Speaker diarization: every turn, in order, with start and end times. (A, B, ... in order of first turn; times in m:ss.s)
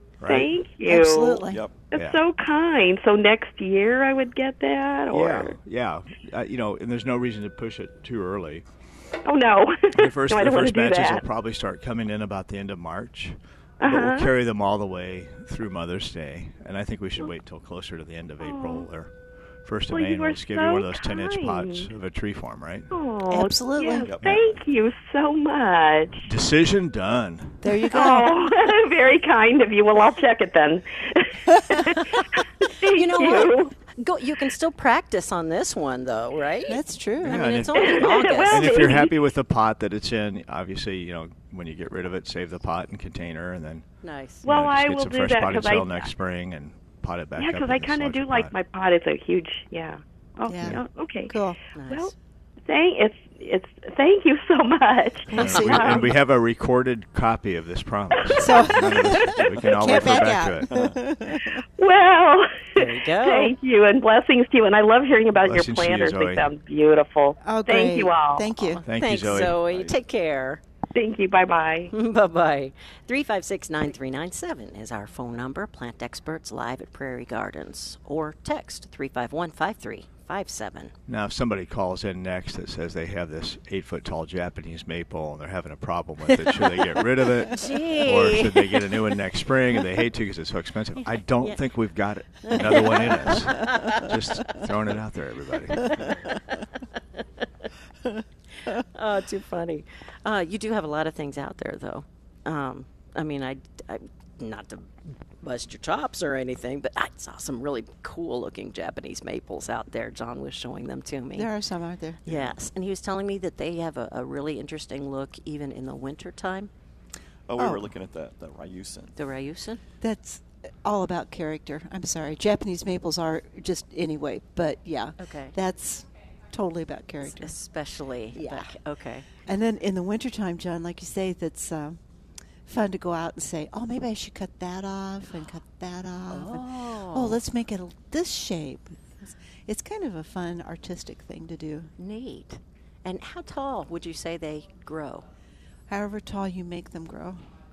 0:00.2-0:00.5 A
0:00.3-0:05.6 B
0:00.9-0:01.6 C
0:01.5-0:01.8 D
0:01.9-0:02.2 A
0:05.1-0:08.6 A
0:09.3-0:11.2 B
0:09.9-0:19.1 A
0:13.8-0:14.3 B
0:18.4-0:18.9 B
0:19.6-0:22.9 A
0:19.9-0:21.9 B
0:22.9-0:26.3 B
0:23.3-0:24.1 C
0:24.0-0:24.4 D
0:26.2-0:27.7 A
0:27.6-0:28.4 C
0:27.9-0:33.7 B
0:32.9-0:39.0 E
0:36.7-0:37.5 C
0:37.2-0:43.9 A
0:37.8-0:39.1 B
0:44.0-0:44.4 E
0:44.4-0:46.1 B
0:44.4-0:48.5 A
0:47.4-0:51.4 B
0:50.5-0:51.6 C
0:51.8-0:52.1 E
0:51.9-0:52.1 B
0:52.7-0:56.2 B
0:55.3-0:56.2 C
0:55.4-1:00.7 A
0:58.2-0:58.7 B
0:58.4-1:01.6 C
1:00.0-1:01.0 D
1:01.5-1:08.5 B
1:02.8-1:03.6 E
1:05.4-1:06.5 A
1:07.4-1:08.8 C
1:08.8-1:10.6 E
1:08.9-1:09.6 A
1:09.4-1:10.0 D
1:10.9-1:11.9 B
1:11.9-1:20.9 E
1:21.1-1:36.0 A
1:26.3-1:29.0 E
1:32.4-1:34.1 E
1:35.8-1:37.2 E
1:38.6-1:51.5 E
1:51.3-1:52.2 C
1:52.3-1:56.7 E
1:57.5-1:59.2 D
1:57.6-1:57.9 C
1:59.2-1:59.8 E
2:00.0-2:07.6 C
2:05.2-2:05.6 E
2:07.2-2:09.3 E
2:08.3-2:08.8 C
2:09.3-2:12.0 C
2:12.7-2:21.9 C
2:16.3-2:17.4 E
2:22.0-2:25.2 E
2:25.9-2:27.5 C